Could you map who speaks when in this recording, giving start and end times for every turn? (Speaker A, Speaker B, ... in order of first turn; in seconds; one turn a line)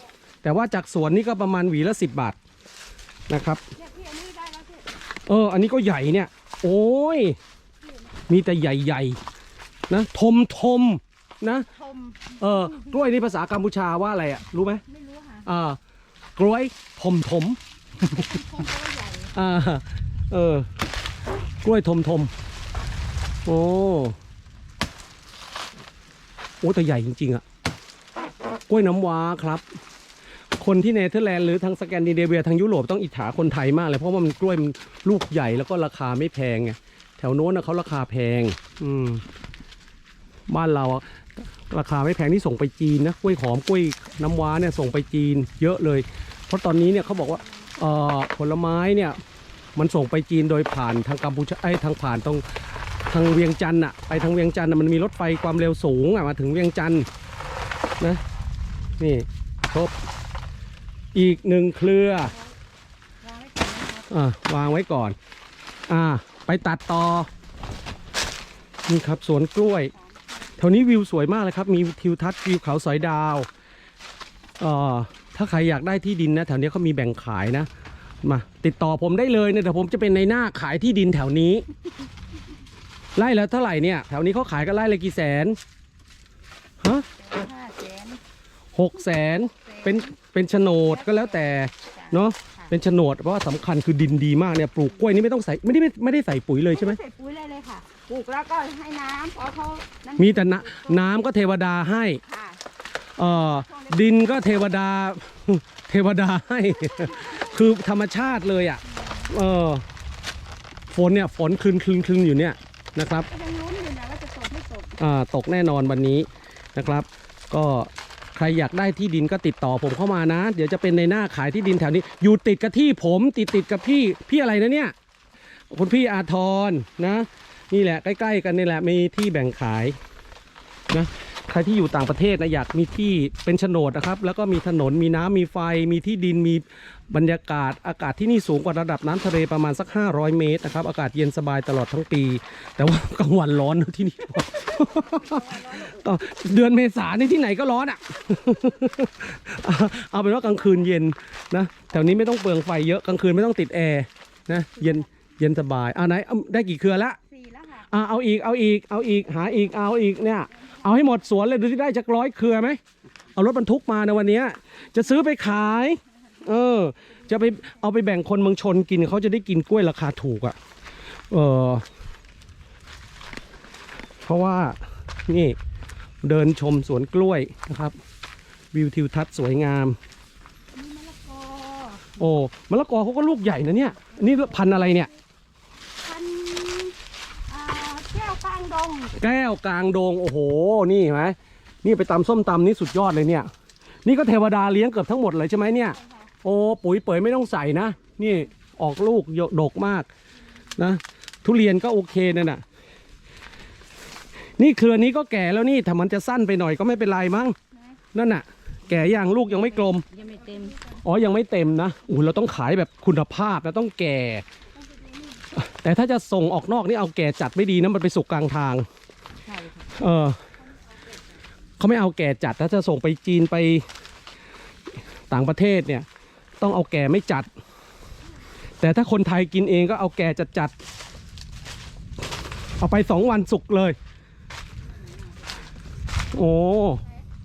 Speaker A: 0.4-2.4
Speaker A: 3.3-3.6
Speaker B: 3.8-4.9
Speaker A: 5.3-7.4
Speaker B: 7.8-8.3
Speaker A: 8.3-9.2
Speaker A: 9.9-11.7
Speaker B: 11.7-12.5
Speaker A: 12.4-14.8
Speaker B: 14.9-15.5
Speaker A: 15.4-15.8
Speaker A: 16.4-17.6
Speaker B: 18.1-19.3
Speaker A: 19.3-20.7
Speaker A: 21.6-22.3
Speaker A: 23.4-24.1
Speaker A: 26.6-27.4
Speaker A: 28.7-29.6
Speaker A: 30.6-39.2
Speaker A: 40.5-49.2
Speaker A: 49.8-52.5
Speaker A: 53.1-57.1
Speaker A: 59.0-59.9
Speaker A: 61.1-62.3
Speaker B: 63.2-64.1
Speaker A: 64.1-65.2
Speaker A: 65.9-67.3
Speaker A: 68.9-69.9
Speaker A: 70.6-73.5
Speaker A: 74.6-77.7
Speaker A: 78.2-81.6
Speaker A: 83.1-85.6
Speaker A: 86.8-87.0
Speaker B: 87.1-88.2
Speaker A: 88.7-97.0
Speaker B: 89.6-90.1
Speaker B: 90.8-92.7
Speaker B: 96.7-101.1
Speaker A: 100.2-102.2
Speaker B: 102.2-102.6
Speaker A: 103.2-109.8
Speaker B: 103.5-104.5
Speaker B: 106.9-107.5
Speaker B: 108.9-109.3
Speaker A: 110.9-113.3
Speaker B: 113.3-115.0
Speaker A: 115.0-124.9
Speaker A: 125.7-129.9
Speaker A: 130.9-157.2
Speaker B: 144.9-146.1
Speaker B: 157.3-157.9
Speaker A: 157.9-162.8
Speaker A: 163.3-170.6
Speaker A: 171.3-171.8
Speaker A: 174.2-175.6
Speaker A: 176.2-177.9
Speaker A: 178.7-180.0
Speaker B: 180.7-182.1
Speaker A: 182.2-185.1
Speaker B: 186.0-186.9
Speaker B: 187.5-189.1
Speaker A: 189.1-193.5
Speaker A: 194.0-200.1
Speaker B: 195.9-196.3
Speaker A: 200.8-202.6
Speaker A: 204.6-207.6
Speaker A: 208.1-210.1
Speaker B: 209.6-211.0
Speaker A: 211.0-214.4
Speaker B: 214.8-215.4
Speaker A: 215.5-218.8
Speaker B: 219.5-219.8
Speaker A: 219.8-220.4
Speaker A: 221.8-223.8
Speaker A: 225.3-226.1
Speaker A: 226.6-227.5
Speaker A: 228.8-230.7
Speaker A: 232.8-233.9
Speaker A: 236.3-237.0